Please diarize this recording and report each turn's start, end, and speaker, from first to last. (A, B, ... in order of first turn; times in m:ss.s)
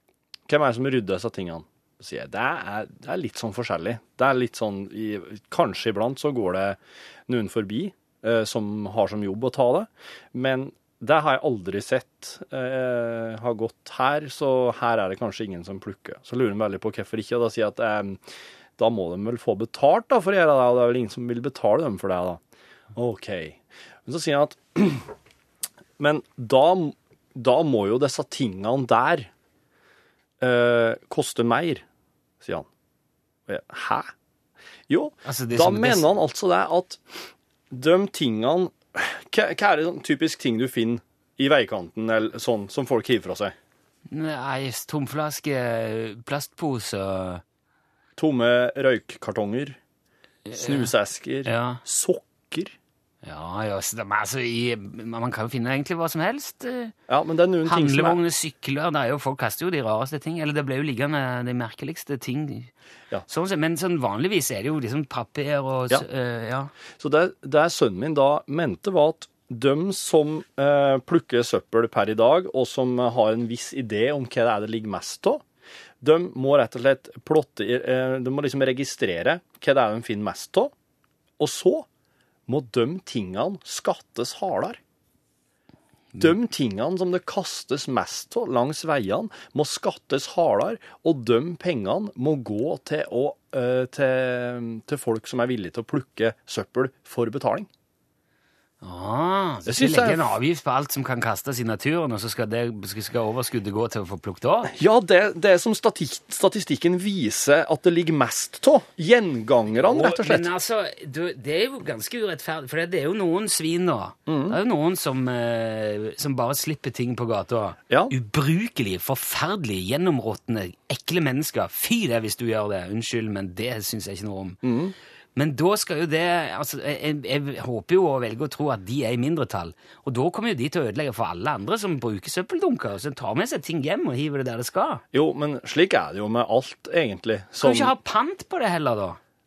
0:00.5-0:18.2 A
0:18.8-0:22.4 A
0:23.0-0:25.1 A
0:26.0-0:29.3 A
0:30.4-0:31.8 A
0:32.4-0:32.7 A
0:33.5-0:34.1 A
0:34.9-0:37.0 A
0:35.2-0:36.2 B
0:37.7-0:43.6 A
0:44.1-0:47.4 B
0:48.2-0:49.8 A
0:50.5-0:50.9 B
0:50.5-0:52.8 A
0:51.4-0:51.8 B
0:53.2-0:56.9 B
0:57.1-0:58.2 A
0:57.6-1:02.7 B
1:03.3-1:06.7 B
1:07.0-1:15.4 A
1:16.0-1:20.7 A
1:21.4-1:21.9 A
1:22.5-1:24.8 A
1:26.2-1:37.7 A
1:38.8-1:44.7 B
1:39.7-1:40.3 A
1:44.7-1:50.5 A
1:49.8-2:04.6 B
1:54.3-1:54.6 A
1:57.9-1:58.1 A
2:04.6-2:04.9 A
2:05.4-2:15.0 B
2:15.1-2:17.9 A
2:17.6-2:19.2 B